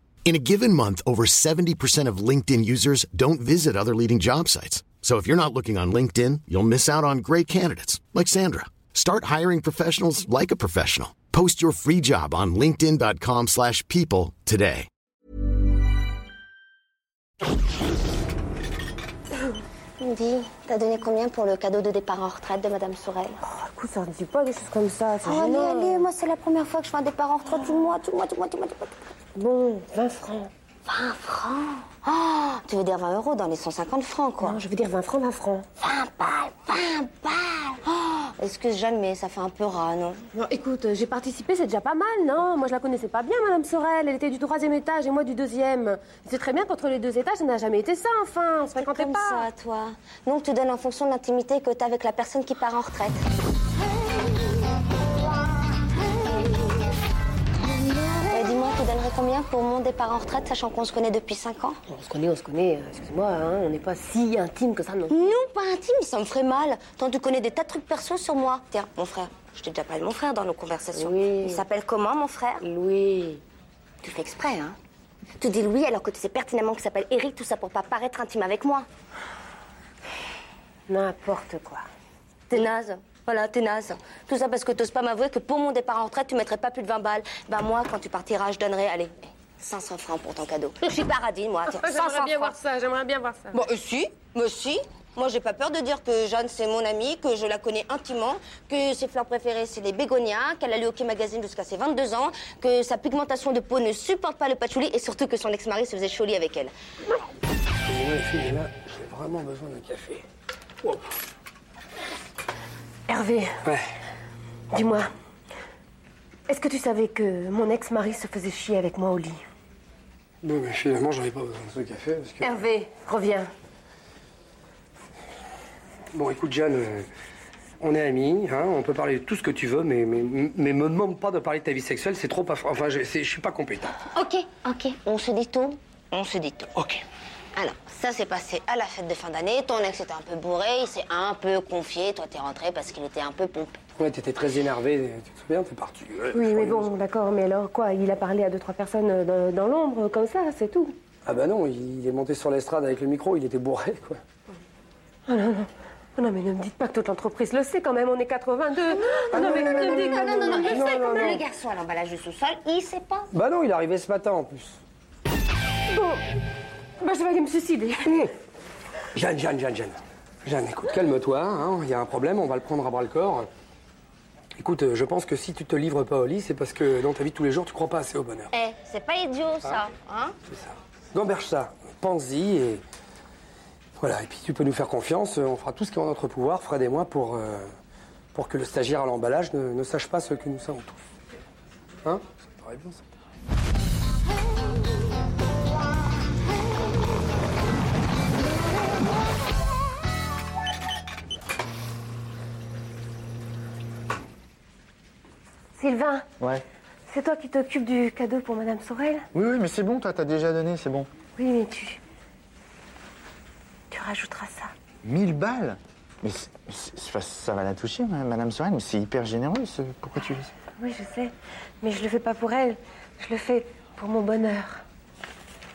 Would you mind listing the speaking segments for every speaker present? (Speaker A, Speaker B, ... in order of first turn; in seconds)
Speaker A: 0.3-14.9
Speaker B: 20.0-23.4, 25.2-28.9, 30.9-34.6, 35.8-40.2, 48.8-53.2, 58.3-61.8, 65.1-72.6, 74.0-74.8, 75.4-78.9, 82.5-92.6, 93.5-106.7, 134.2-137.0, 137.6-143.8, 159.1-163.3, 178.5-180.4
Speaker C: 23.4-26.1, 29.4-30.5, 34.4-35.7, 40.3-49.5, 61.9-65.4, 70.9-71.7, 72.6-73.4, 80.9-81.8, 91.7-93.6, 113.1-113.6, 114.7-115.1, 116.5-119.4, 122.4-123.5, 146.3-151.0, 155.3-160.9, 165.9-166.2, 167.0-168.3, 205.8-206.3, 207.1-209.3, 211.4-212.0, 213.9-214.7, 220.8-224.8
Speaker D: 107.8-110.2, 120.4-122.5, 126.1-127.1, 127.8-134.0, 144.0-146.9, 151.2-154.2, 159.7-160.1, 160.8-161.4, 163.3-164.8, 169.2-173.5, 174.6-178.5, 180.5-182.8, 184.0-187.7, 188.3-191.0, 192.1-193.0
Speaker E: 209.3-211.1, 215.0-220.5